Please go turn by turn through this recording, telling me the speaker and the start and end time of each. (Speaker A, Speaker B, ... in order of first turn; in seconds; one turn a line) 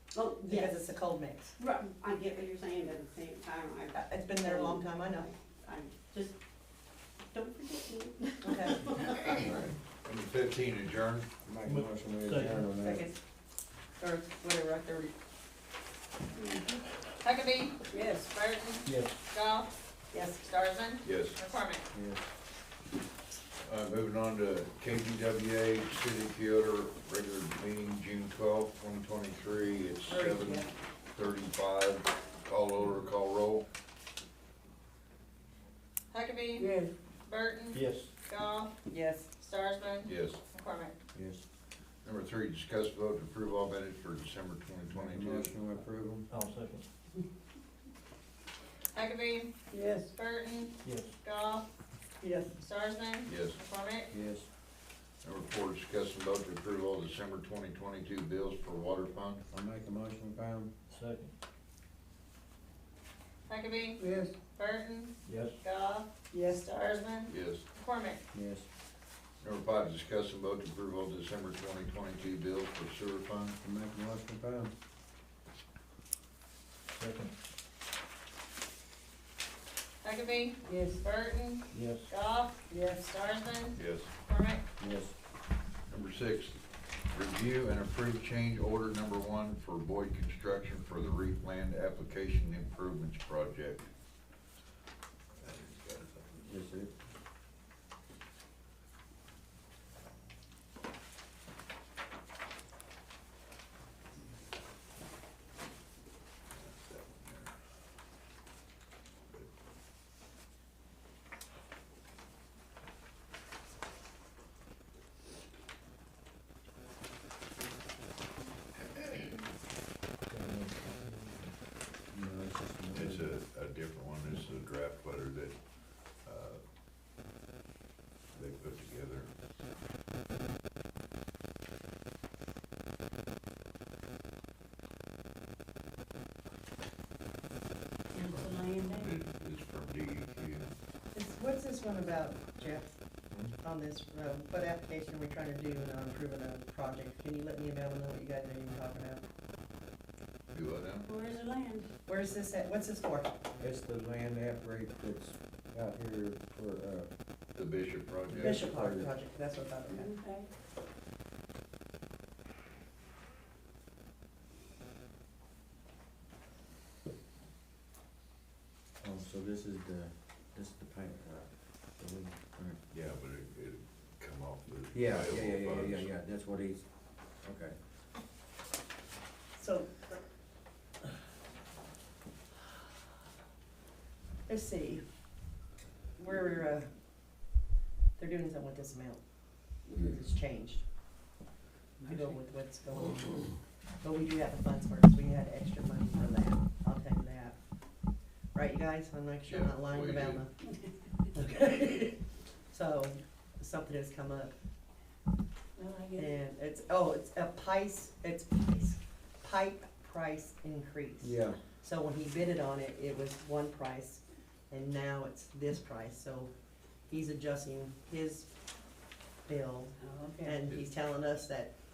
Speaker A: 0.1-0.8
Speaker B: 0.4-1.6
Speaker A: 1.6-6.3
Speaker B: 3.9-5.3
Speaker A: 7.3-9.4
Speaker B: 8.4-9.5
Speaker C: 9.4-11.3
Speaker D: 11.4-13.1
Speaker E: 11.7-12.6
Speaker B: 12.8-13.2
Speaker B: 14.0-15.1
Speaker A: 16.4-16.8
Speaker F: 17.2-21.8
Speaker A: 17.9-18.3
Speaker E: 18.9-19.2
Speaker B: 20.1-20.4
Speaker C: 21.0-21.4
Speaker D: 21.9-22.2
Speaker C: 23.6-33.6
Speaker B: 30.1-30.7
Speaker F: 36.1-36.7
Speaker A: 36.6-36.9
Speaker F: 37.2-38.7
Speaker E: 37.7-38.1
Speaker B: 38.9-39.3
Speaker F: 39.3-40.9
Speaker C: 40.0-40.4
Speaker D: 41.1-41.4
Speaker C: 42.0-45.6
Speaker D: 44.9-46.3
Speaker E: 46.3-46.9
Speaker F: 48.9-51.6
Speaker A: 49.7-50.1
Speaker E: 50.8-51.1
Speaker B: 52.2-52.6
Speaker F: 52.6-54.1
Speaker C: 53.2-53.6
Speaker D: 54.1-54.5
Speaker C: 55.2-59.4
Speaker D: 59.5-60.7
Speaker E: 60.9-61.3
Speaker F: 63.5-68.2
Speaker A: 64.0-64.3
Speaker E: 65.3-65.6
Speaker C: 67.3-67.6
Speaker D: 68.3-68.7
Speaker C: 69.4-73.6
Speaker D: 73.6-74.7
Speaker E: 76.9-77.3
Speaker F: 80.0-84.6
Speaker A: 80.7-81.0
Speaker E: 81.7-82.1
Speaker C: 83.8-84.1
Speaker D: 84.8-85.2
Speaker C: 85.9-93.9
Speaker C: 95.4-96.5
Speaker D: 96.5-96.9
Speaker C: 106.5-107.5
Speaker E: 120.3-121.4
Speaker D: 122.1-123.3
Speaker C: 122.9-125.6
Speaker C: 126.2-126.6
Speaker C: 128.3-129.3
Speaker A: 138.1-139.1
Speaker C: 138.2-140.7
Speaker B: 141.1-143.0
Speaker B: 143.6-149.2
Speaker C: 150.5-151.1
Speaker A: 151.1-151.9
Speaker B: 152.1-153.3
Speaker D: 153.6-157.1
Speaker C: 157.5-158.6
Speaker D: 158.3-159.1
Speaker B: 158.4-160.2
Speaker A: 159.9-160.5
Speaker D: 169.0-172.8
Speaker C: 172.9-176.1
Speaker D: 174.9-177.8
Speaker B: 179.6-180.2
Speaker B: 184.5-185.0
Speaker B: 186.2-186.9
Speaker B: 188.2-189.2
Speaker B: 189.9-190.8
Speaker A: 192.0-192.4
Speaker B: 192.0-197.6
Speaker B: 198.5-200.5
Speaker C: 199.4-200.4
Speaker B: 201.3-204.5
Speaker A: 205.8-206.3
Speaker B: 206.2-216.5
Speaker D: 211.2-211.6
Speaker B: 217.1-218.5
Speaker B: 219.5-221.7
Speaker A: 220.0-220.6